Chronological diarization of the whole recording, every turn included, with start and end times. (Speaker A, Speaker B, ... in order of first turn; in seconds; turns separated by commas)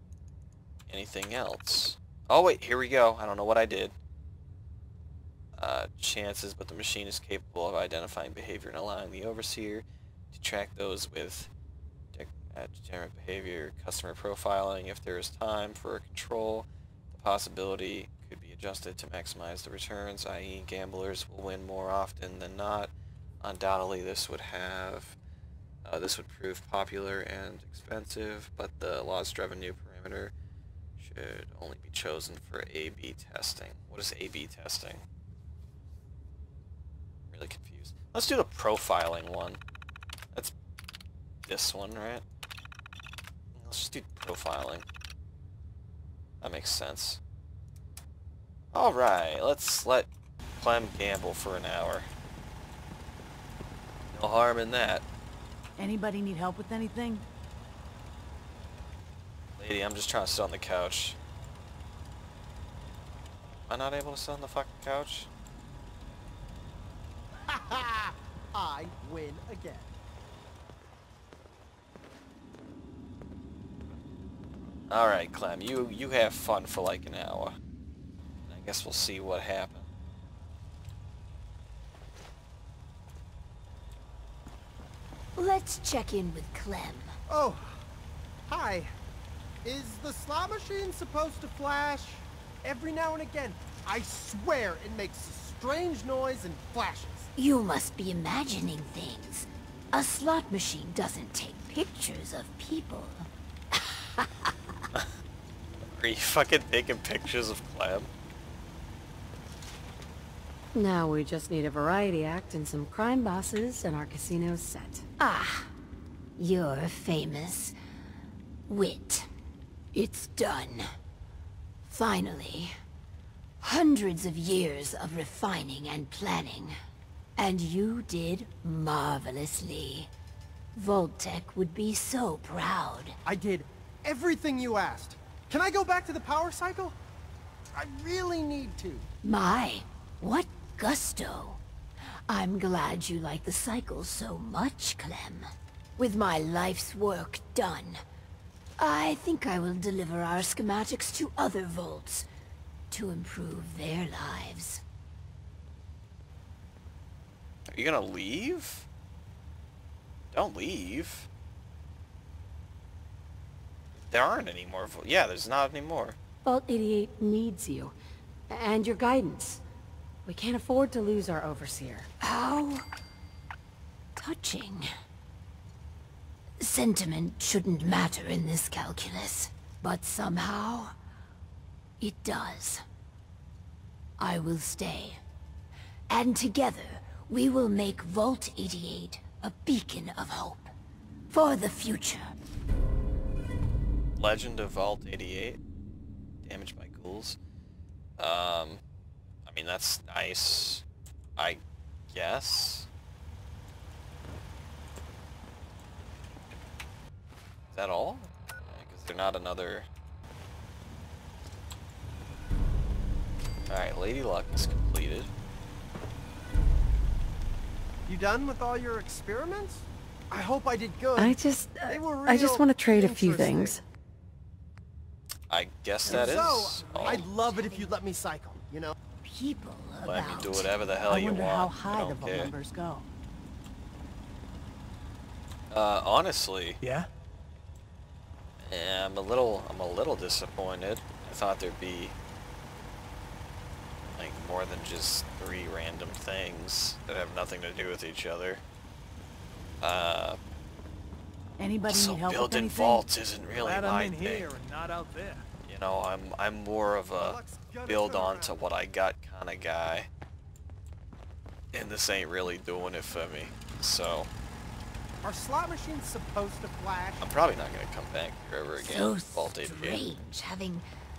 Speaker A: 0.9-4.0, Speaker A: 5.5-11.5, Speaker A: 12.1-25.2, Speaker A: 25.8-30.3, Speaker A: 31.0-35.0, Speaker A: 37.3-39.6, Speaker A: 41.5-42.2, Speaker A: 43.5-44.8, Speaker A: 46.4-47.2, Speaker A: 48.7-52.1, Speaker A: 54.1-55.0, Speaker B: 55.8-57.2, Speaker A: 59.6-61.2, Speaker A: 63.7-65.3, Speaker C: 67.5-69.9, Speaker A: 74.9-77.6, Speaker A: 78.5-79.9, Speaker D: 85.4-87.2, Speaker C: 87.3-87.8, Speaker C: 88.5-88.9, Speaker C: 89.6-97.3, Speaker D: 97.3-104.5, Speaker A: 105.9-108.1, Speaker E: 110.7-115.1, Speaker D: 115.2-115.7, Speaker D: 116.4-117.7, Speaker D: 118.7-119.3, Speaker D: 119.9-120.8, Speaker D: 121.8-122.7, Speaker D: 123.6-126.7, Speaker D: 127.4-130.1, Speaker D: 130.7-133.2, Speaker C: 133.2-136.9, Speaker C: 137.7-139.1, Speaker D: 139.2-141.6, Speaker D: 142.3-145.4, Speaker D: 146.0-148.0, Speaker D: 148.8-152.3, Speaker D: 152.9-154.8, Speaker A: 157.7-158.9, Speaker A: 160.3-161.3, Speaker A: 164.0-166.2, Speaker E: 166.4-167.9, Speaker E: 168.5-169.6, Speaker E: 170.2-172.1, Speaker D: 172.2-172.9, Speaker D: 174.2-174.8, Speaker D: 176.6-180.9, Speaker D: 182.0-182.8, Speaker D: 184.2-185.2, Speaker D: 186.1-190.7, Speaker D: 191.3-192.2, Speaker A: 194.2-195.6, Speaker A: 196.4-197.4, Speaker A: 198.2-198.8, Speaker A: 199.4-200.8, Speaker A: 201.4-202.9, Speaker A: 207.7-209.9, Speaker A: 213.7-215.3, Speaker C: 218.1-223.8, Speaker E: 221.2-223.8, Speaker A: 225.5-227.3, Speaker C: 226.1-228.9, Speaker D: 226.2-227.9, Speaker D: 229.2-230.7, Speaker A: 230.0-232.5, Speaker B: 231.1-233.0, Speaker A: 235.7-236.8, Speaker F: 236.8-237.1, Speaker A: 238.6-242.2, Speaker A: 244.1-248.6, Speaker A: 249.8-250.4, Speaker B: 251.6-253.0, Speaker A: 251.9-254.5, Speaker F: 253.5-255.4, Speaker A: 255.7-260.1, Speaker C: 257.1-258.6, Speaker A: 261.7-264.3, Speaker C: 265.2-267.2, Speaker A: 267.2-270.0, Speaker D: 268.8-270.9